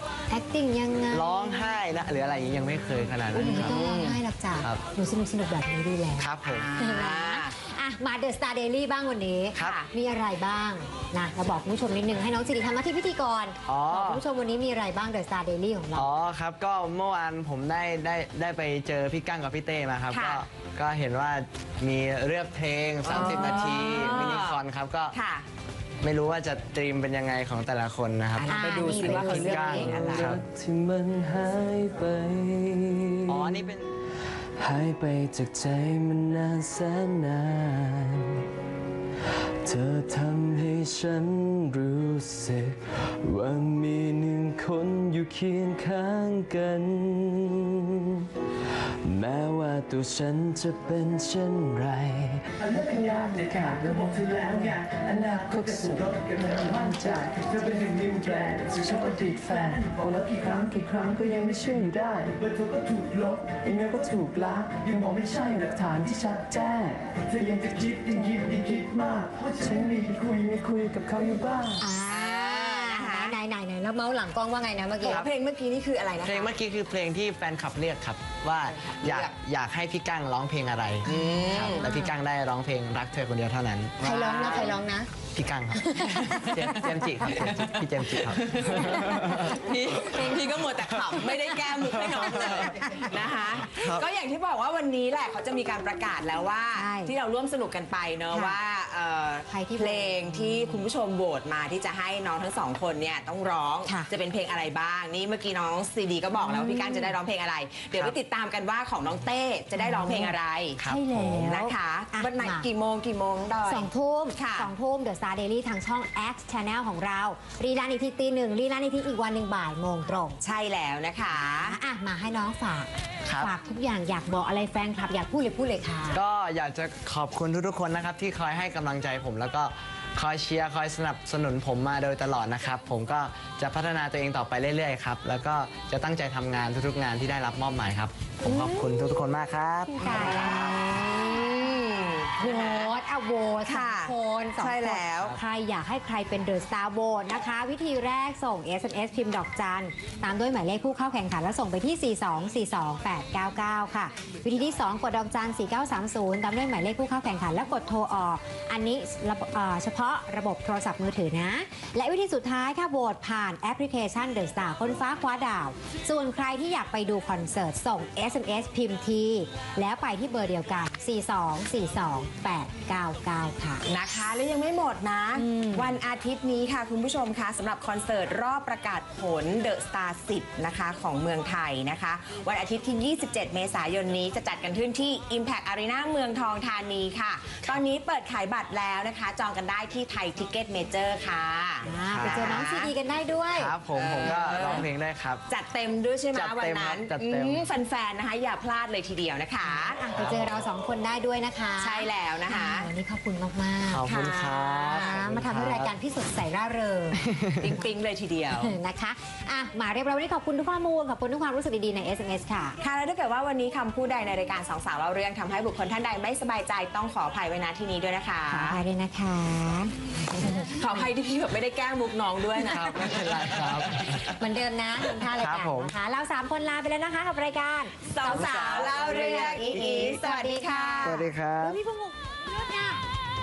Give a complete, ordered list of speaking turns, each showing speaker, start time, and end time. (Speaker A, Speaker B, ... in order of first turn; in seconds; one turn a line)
Speaker A: 0.3-1.8
Speaker B: 1.1-3.8
Speaker A: 3.3-16.1
Speaker C: 3.4-4.2
Speaker B: 6.2-6.7
Speaker C: 6.4-7.5
Speaker C: 9.6-9.9
Speaker B: 13.7-14.2
Speaker B: 15.9-25.1
Speaker C: 20.1-20.4
Speaker C: 23.0-24.6
Speaker A: 23.1-23.6
Speaker C: 25.1-25.4
Speaker B: 26.0-30.4
Speaker C: 28.3-30.4
Speaker A: 28.5-30.0
Speaker D: 29.0-33.7
Speaker B: 33.3-33.9
Speaker D: 34.6-38.5
Speaker D: 39.6-48.3
Speaker D: 49.0-62.4
Speaker E: 52.7-61.5
Speaker E: 62.4-70.7
Speaker D: 63.6-64.9
Speaker D: 65.5-67.0
Speaker D: 68.4-69.1
Speaker D: 70.6-71.8
Speaker E: 71.3-71.6
Speaker A: 71.8-75.2
Speaker C: 72.1-73.3
Speaker C: 75.0-76.5
Speaker B: 75.0-75.3
Speaker B: 76.2-84.8
Speaker C: 78.8-79.3
Speaker C: 81.0-81.9
Speaker A: 81.0-82.1
Speaker A: 84.0-85.1
Speaker C: 84.1-84.7
Speaker B: 85.3-91.3
Speaker A: 85.7-87.5
Speaker C: 86.0-110.8
Speaker A: 88.7-89.5
Speaker B: 91.8-92.6
Speaker A: 92.4-93.1
Speaker B: 93.6-94.0
Speaker A: 96.7-97.1
Speaker A: 98.3-98.6
Speaker A: 99.5-100.8
Speaker A: 103.8-104.1
Speaker A: 106.4-107.1
Speaker A: 109.7-112.7
Speaker B: 110.8-111.4
Speaker C: 111.4-114.7
Speaker A: 113.6-120.4
Speaker C: 120.4-121.8
Speaker A: 121.6-126.2
Speaker B: 123.2-123.5
Speaker B: 126.1-140.3
Speaker A: 138.4-139.3
Speaker A: 139.8-141.6
Speaker C: 140.0-142.9
Speaker A: 142.4-173.8
Speaker C: 143.6-145.4
Speaker C: 173.8-192.9
Speaker A: 175.3-175.9
Speaker A: 191.8-193.7
Speaker B: 192.1-192.7
Speaker B: 193.5-195.4
Speaker C: 193.9-194.9
Speaker C: 195.5-200.0
Speaker B: 196.3-197.7
Speaker A: 199.6-204.1
Speaker B: 200.1-200.6
Speaker C: 201.8-202.9
Speaker B: 203.9-205.9
Speaker C: 204.0-205.2
Speaker A: 204.9-207.8
Speaker B: 207.2-207.8
Speaker C: 207.6-208.7
Speaker A: 208.5-212.8
Speaker C: 212.8-218.8
Speaker A: 218.5-221.1
Speaker C: 220.6-224.1
Speaker B: 222.6-224.3
Speaker A: 224.2-233.0
Speaker B: 225.4-225.9
Speaker C: 228.1-231.3
Speaker B: 228.3-228.9
Speaker B: 229.7-230.2
Speaker B: 231.0-231.8